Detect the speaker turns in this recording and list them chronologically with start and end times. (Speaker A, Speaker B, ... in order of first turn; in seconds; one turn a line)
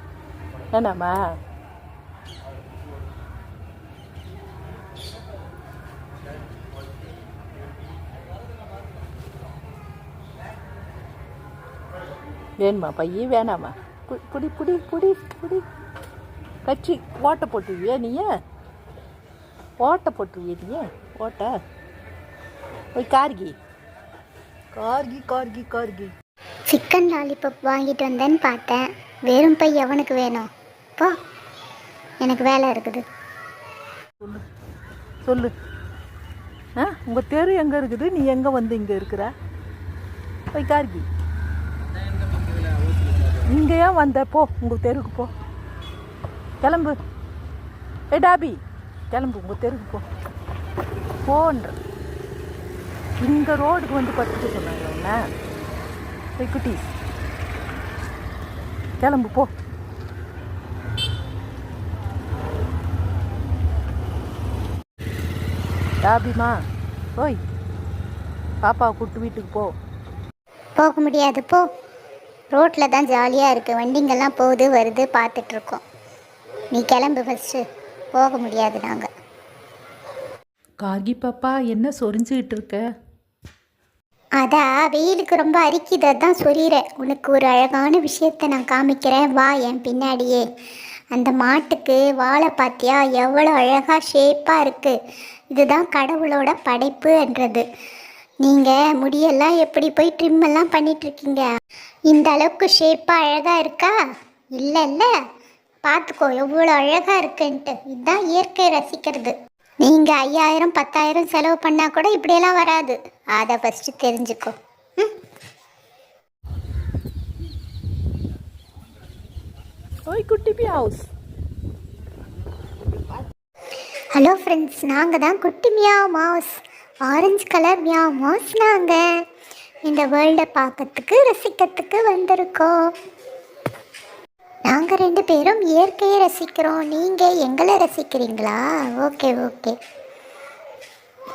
Speaker A: 0.7-1.2
Speaker A: 12.6-15.6
Speaker A: 16.6-18.2
Speaker A: 19.8-21.5
Speaker A: 22.9-23.5
Speaker A: 24.7-26.1
Speaker B: 26.7-31.1
Speaker B: 32.2-33.0
Speaker A: 35.2-35.5
Speaker A: 36.8-39.3
Speaker A: 40.5-41.0
Speaker A: 43.5-45.3
Speaker A: 46.6-47.0
Speaker A: 48.1-48.6
Speaker A: 49.1-50.0
Speaker A: 51.2-51.8
Speaker A: 53.2-55.2
Speaker A: 56.4-56.8
Speaker A: 59.0-59.5
Speaker A: 66.0-66.5
Speaker A: 68.6-69.7
Speaker B: 70.8-71.6
Speaker B: 72.5-75.8
Speaker B: 76.7-77.6
Speaker B: 78.2-79.1
Speaker A: 80.8-82.8
Speaker B: 84.4-90.4
Speaker B: 91.1-94.9
Speaker B: 95.5-97.6
Speaker B: 98.4-101.5
Speaker B: 102.1-103.9
Speaker B: 104.6-105.1
Speaker B: 105.8-115.2
Speaker A: 120.1-121.1
Speaker B: 124.2-129.0
Speaker B: 129.9-132.7
Speaker B: 134.7-139.7